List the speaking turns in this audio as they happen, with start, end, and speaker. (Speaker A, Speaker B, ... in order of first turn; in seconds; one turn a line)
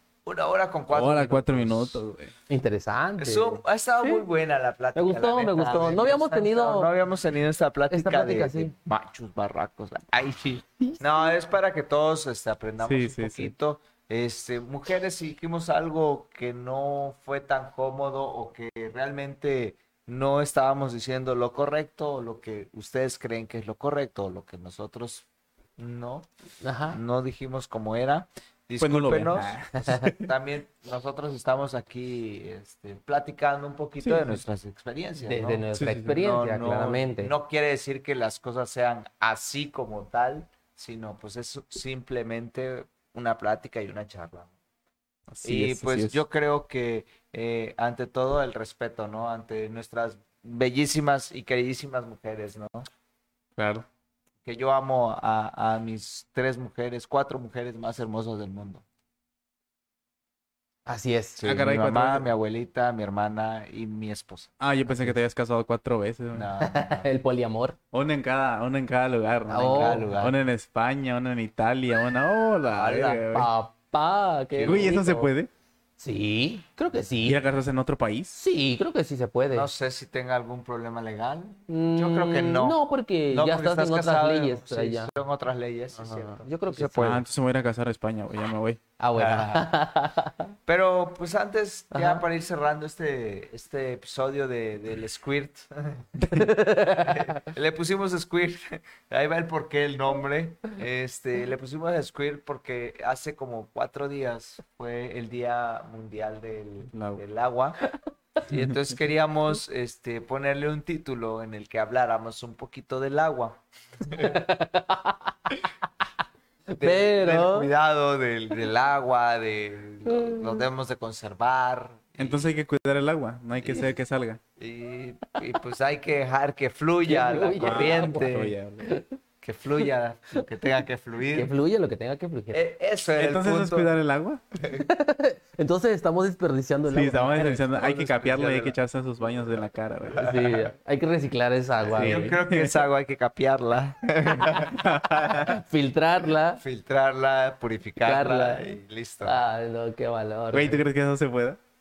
Speaker A: 0.2-2.0
Speaker B: 0.9-2.3
Speaker C: 2.5-4.2
Speaker A: 3.2-25.2
Speaker C: 4.9-6.9
Speaker C: 7.9-8.7
Speaker B: 12.8-13.5
Speaker A: 25.8-26.3
Speaker C: 26.6-27.0
Speaker A: 26.9-29.5
Speaker B: 28.8-30.3
Speaker A: 30.1-44.5
Speaker B: 34.0-34.4
Speaker C: 35.2-37.3
Speaker B: 35.7-36.1
Speaker B: 45.3-46.2
Speaker A: 45.4-52.9
Speaker B: 53.6-53.9
Speaker A: 54.4-58.8
Speaker C: 60.9-61.4
Speaker A: 61.4-64.5
Speaker B: 61.4-62.3
Speaker B: 64.6-66.5
Speaker C: 64.9-65.1
Speaker A: 66.3-67.1
Speaker C: 66.6-67.8
Speaker B: 67.9-73.5
Speaker C: 69.5-70.1
Speaker A: 69.6-70.4
Speaker A: 72.7-73.2
Speaker C: 73.3-75.3
Speaker A: 74.5-75.0
Speaker B: 74.7-75.5
Speaker C: 76.0-77.4
Speaker B: 77.2-78.4
Speaker C: 78.3-79.7
Speaker A: 79.5-87.2
Speaker C: 81.7-85.1
Speaker C: 86.0-87.2
Speaker B: 87.0-88.8
Speaker C: 89.0-90.5
Speaker A: 89.2-89.7
Speaker A: 90.7-96.1
Speaker C: 91.9-92.2
Speaker B: 96.2-96.5
Speaker C: 96.3-97.4
Speaker A: 97.0-107.8
Speaker B: 106.9-107.2
Speaker A: 108.5-114.4
Speaker B: 108.5-108.8
Speaker C: 114.1-115.3
Speaker C: 116.7-117.7
Speaker A: 116.8-122.5
Speaker C: 120.1-120.5
Speaker B: 122.2-124.4
Speaker A: 124.6-128.6
Speaker C: 127.0-128.3
Speaker B: 127.6-129.0
Speaker A: 129.4-131.5
Speaker C: 131.3-132.6
Speaker A: 132.5-133.9
Speaker B: 133.2-134.4
Speaker C: 134.6-137.6
Speaker B: 136.9-140.4
Speaker A: 137.4-138.8
Speaker A: 140.1-140.6
Speaker C: 140.2-142.3
Speaker A: 141.9-144.8
Speaker B: 141.9-142.8
Speaker B: 144.4-145.6
Speaker C: 145.4-146.6
Speaker A: 146.6-149.4
Speaker C: 148.0-148.6
Speaker C: 149.2-150.8
Speaker B: 150.5-151.6